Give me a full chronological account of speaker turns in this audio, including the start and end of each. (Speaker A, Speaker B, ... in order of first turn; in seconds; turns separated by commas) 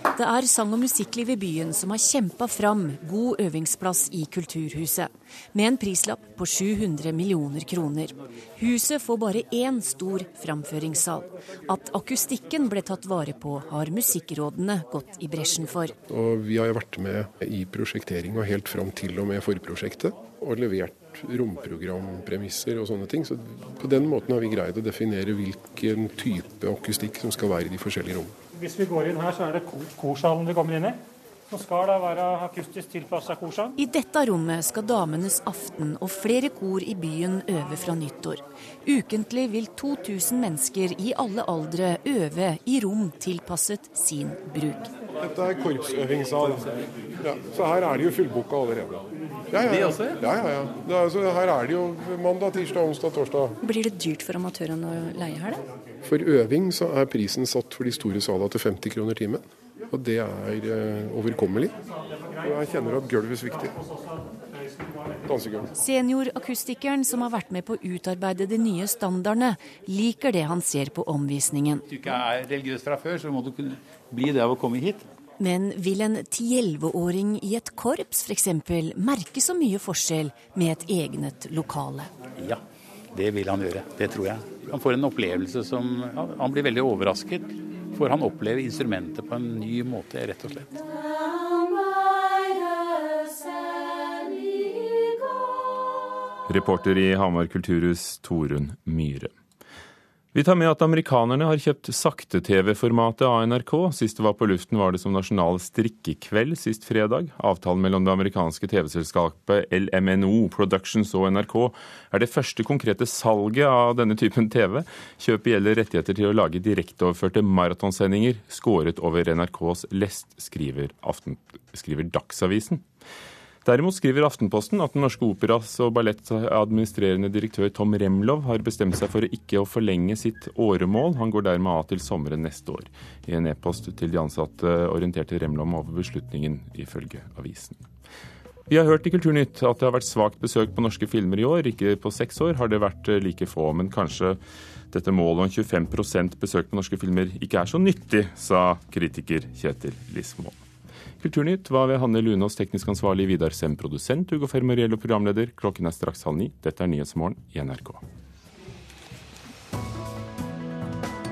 Speaker A: 0.2-15.9, Speaker B: 16.1-28.4, Speaker C: 28.6-33.7, Speaker A: 33.8-44.9, Speaker B: 45.2-53.6, Speaker D: 53.6-55.6, Speaker B: 56.0-61.8, Speaker B: 62.4-63.8, Speaker B: 65.2-65.7, Speaker A: 65.8-71.8, Speaker E: 71.9-75.0, Speaker A: 75.4-82.1, Speaker E: 83.1-90.7, Speaker F: 96.5-99.3, Speaker F: 100.3-122.8, Speaker F: 123.6-137.8, Speaker F: 138.7-144.4, Speaker F: 144.9-150.6, Speaker F: 151.2-158.0